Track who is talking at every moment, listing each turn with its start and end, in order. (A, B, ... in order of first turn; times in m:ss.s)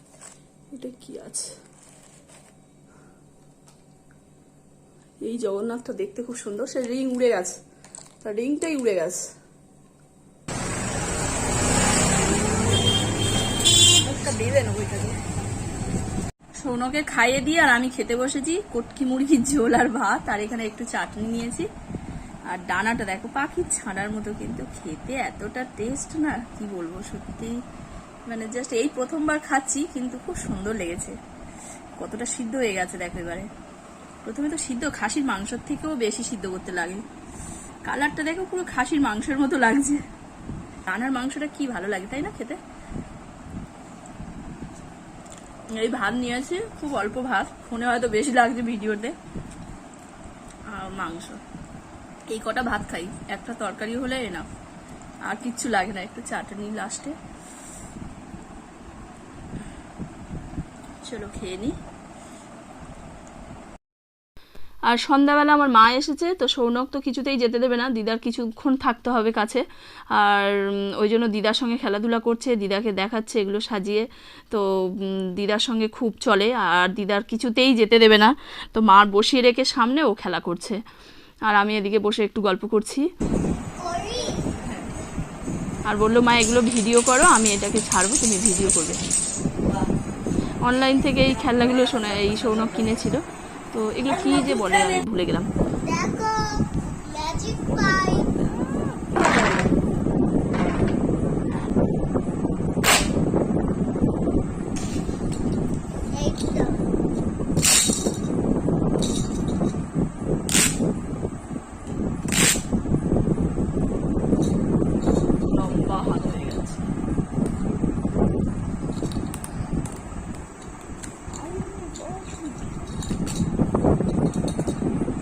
0:00.7-0:01.6 A
0:05.2-0:07.6 A
0:08.2-0:09.3 A
0:14.0-0:15.2 A
0:16.6-0:21.7 A
0:22.5-0:27.6 A
0:28.3-0:31.2 A
0:32.0-0:33.5 A
0:34.2-0:37.0 A
0:37.8-0:40.0 A
0:40.9-0:42.6 A
0:45.7-0:49.2 A
0:50.7-0:51.4 A
0:52.3-0:54.5 A
0:55.2-0:57.2 A
1:01.0-1:01.8 A
1:04.9-1:20.8 A
1:21.5-1:23.1 A
1:23.8-1:24.5 B
1:24.5-1:24.9 A
1:25.9-1:29.0 A
1:30.6-1:35.5 A
1:35.8-1:38.4 B
1:38.4-1:39.5 A
1:46.1-1:47.0 B
1:55.5-1:56.9 A
2:01.3-2:02.9 A